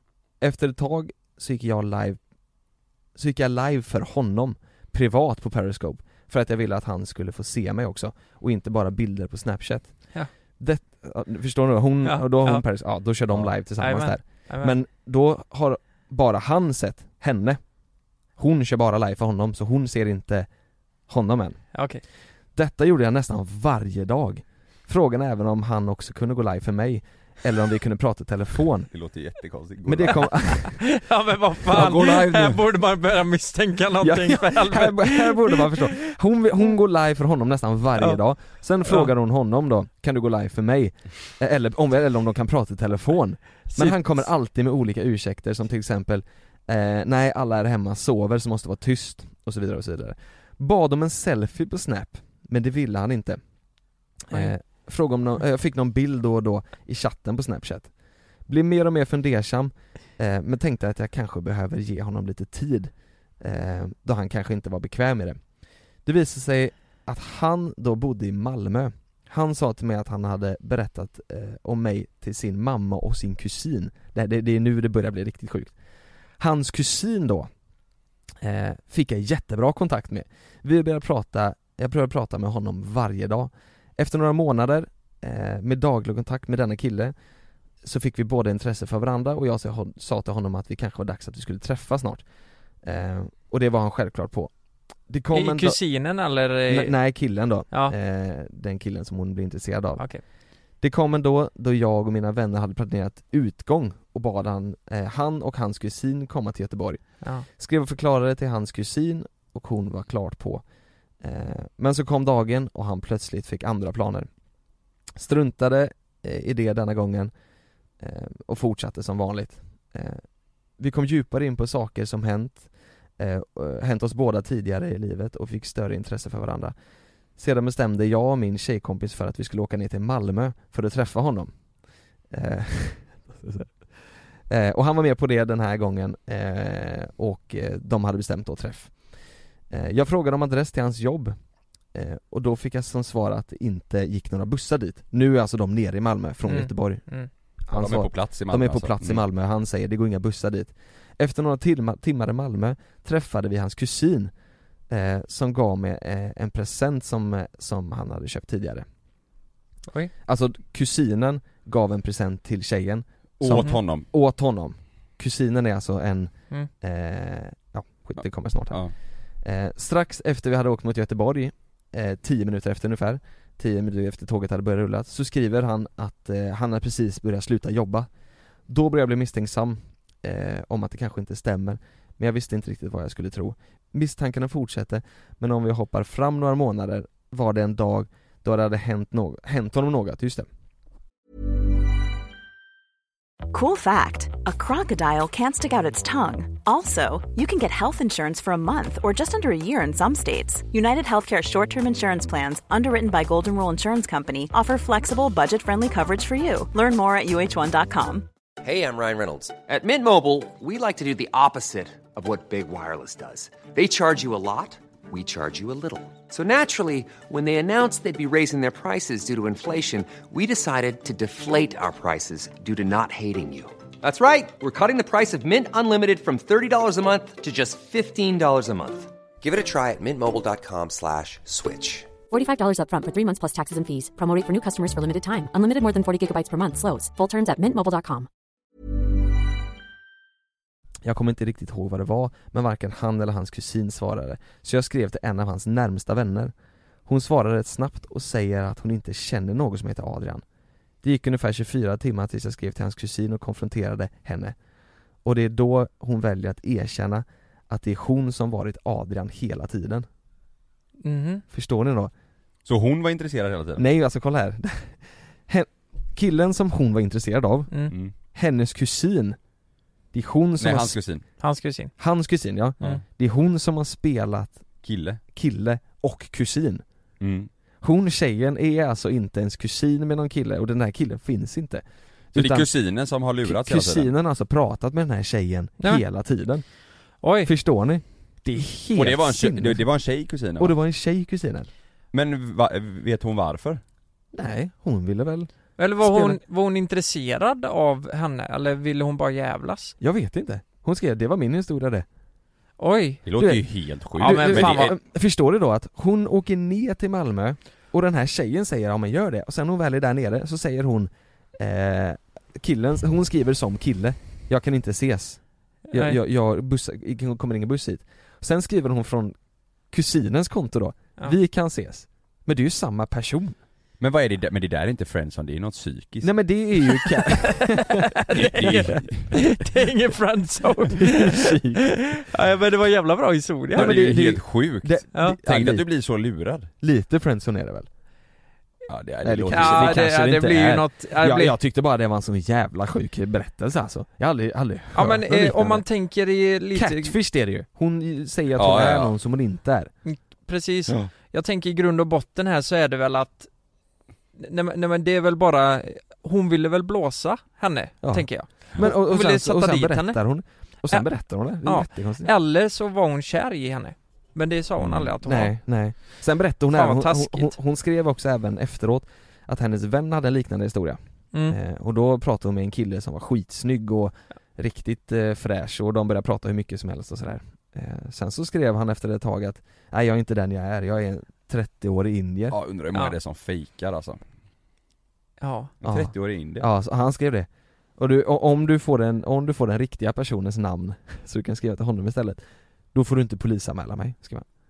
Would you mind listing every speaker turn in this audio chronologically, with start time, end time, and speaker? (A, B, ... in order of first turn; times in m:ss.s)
0:00.4-0:02.2 A
0:03.2-0:17.6 A
0:12.0-0:12.6 B
0:13.8-0:14.8 B
0:18.4-0:20.5 A
0:21.1-0:21.7 A
0:21.7-0:22.0 B
0:22.6-0:28.9 A
0:28.9-0:30.4 C
0:29.8-0:30.8 A
0:30.7-0:35.9 B
0:31.7-0:32.6 A
0:34.0-0:53.4 A
0:38.8-0:39.1 B
0:43.7-0:44.3 B
0:54.3-0:57.9 A
0:58.5-1:05.4 A
1:06.0-1:15.8 A
1:16.4-1:17.5 A
1:18.4-1:27.1 A
1:27.8-1:32.2 A
1:32.8-1:34.5 A
1:35.1-1:35.8 A
1:35.3-1:37.0 B
1:36.7-1:40.1 A
1:40.8-1:50.6 A
1:51.2-1:54.3 A
1:55.2-1:57.3 A
1:58.0-2:00.2 A
2:00.8-2:06.7 A
2:07.4-2:11.5 A
2:12.3-2:13.8 A
2:14.5-2:19.0 A
2:19.7-2:21.4 A
2:21.9-2:27.0 A
2:26.5-2:27.3 B
2:27.7-2:34.3 A
2:27.7-2:29.2 C
2:34.9-2:38.9 A
2:40.3-2:48.8 A
2:43.4-2:44.1 C
2:49.4-2:58.1 A
2:58.7-3:10.5 A
3:13.5-3:28.3 D
3:28.6-3:52.1 E
3:52.3-3:58.3 F
4:01.0-4:06.5 A
4:07.1-4:10.4 A
4:11.0-4:14.6 A
4:15.2-4:20.1 A
4:21.0-4:21.4 B
4:21.5-4:22.1 A
4:22.6-4:23.8 C
4:23.8-4:27.8 A
4:28.3-4:29.4 A
4:30.1-4:31.0 A
4:30.6-4:31.2 C
4:31.4-4:31.9 B
4:32.0-4:34.6 A
4:34.8-4:35.2 C
4:35.3-4:36.8 A
4:37.2-4:37.5 C
4:37.8-4:42.7 A
4:42.3-4:44.1 C
4:43.4-4:46.6 A
4:47.2-4:47.5 B
4:47.4-4:49.8 A
4:49.0-4:50.8 C
4:50.6-4:51.7 A
4:52.1-4:53.8 C
4:54.3-4:56.4 A
4:55.8-5:00.0 B
5:00.0-5:02.1 A
5:02.8-5:03.2 B
5:03.3-5:04.9 C
5:03.4-5:19.4 A
5:04.2-5:04.9 B
5:15.9-5:16.2 B
5:19.9-5:23.6 A
5:24.0-5:26.3 C
5:26.2-5:29.1 A
5:28.2-5:34.1 B
5:28.3-5:29.3 C
5:31.0-5:32.2 A
5:33.7-5:35.9 A
5:33.8-5:36.7 C
5:36.8-5:37.9 A
5:38.9-5:40.0 C
5:39.2-5:45.9 A
5:39.5-5:41.6 B
5:44.9-5:47.2 B
5:46.8-5:49.9 A
5:48.6-5:49.1 C
5:50.0-5:53.5 B
5:54.4-6:00.2 B
5:58.0-6:02.3 A
6:01.6-6:05.5 B
6:04.8-6:05.1 C
6:05.2-6:22.6 A
6:06.7-6:07.6 B
6:22.5-6:24.2 C
6:25.4-6:25.7 B
6:25.8-6:26.7 C
6:25.8-6:32.4 A
6:32.9-6:34.5 A